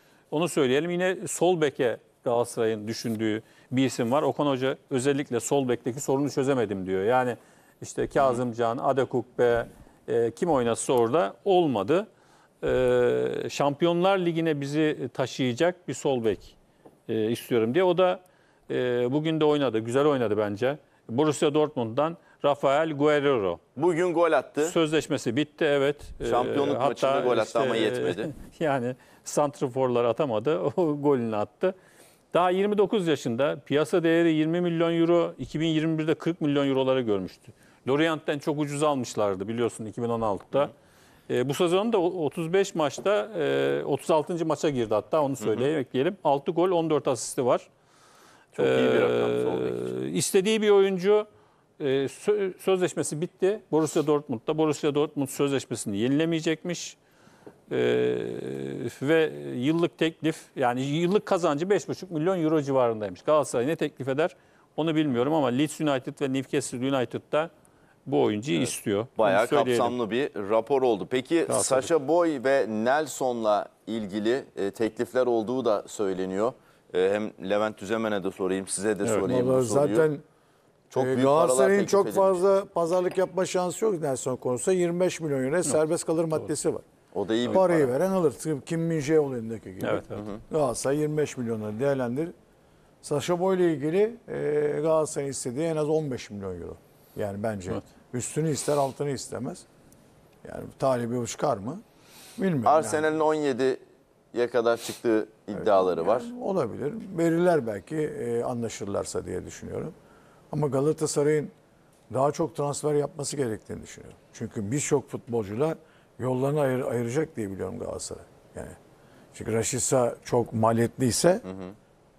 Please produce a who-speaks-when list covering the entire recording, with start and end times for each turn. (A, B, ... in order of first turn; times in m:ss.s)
0:00.3-0:12.1 A
0:12.6-0:16.6 A
0:17.1-0:23.6 A
0:23.8-0:24.8 B
0:24.6-0:31.8 A
0:26.2-0:28.3 B
0:32.3-0:40.7 A
0:41.3-0:47.7 A
0:45.4-0:45.7 B
0:48.6-0:49.9 B
0:48.6-0:51.3 A
0:51.8-0:57.0 A
0:57.7-1:07.5 A
1:08.1-1:09.9 A
1:09.2-1:20.1 B
1:11.5-1:11.9 A
1:19.2-1:20.2 C
1:20.9-1:22.4 B
1:21.0-1:26.8 C
1:27.1-1:27.9 B
1:27.5-1:32.3 C
1:29.8-1:30.2 A
1:30.2-1:30.4 B
1:33.0-1:39.6 C
1:40.4-1:41.8 C
1:42.4-1:43.1 C
1:42.7-1:43.8 B
1:44.3-1:46.3 B
1:45.5-1:49.9 C
1:50.5-1:51.5 C
1:52.1-1:58.8 C
1:59.3-2:01.4 C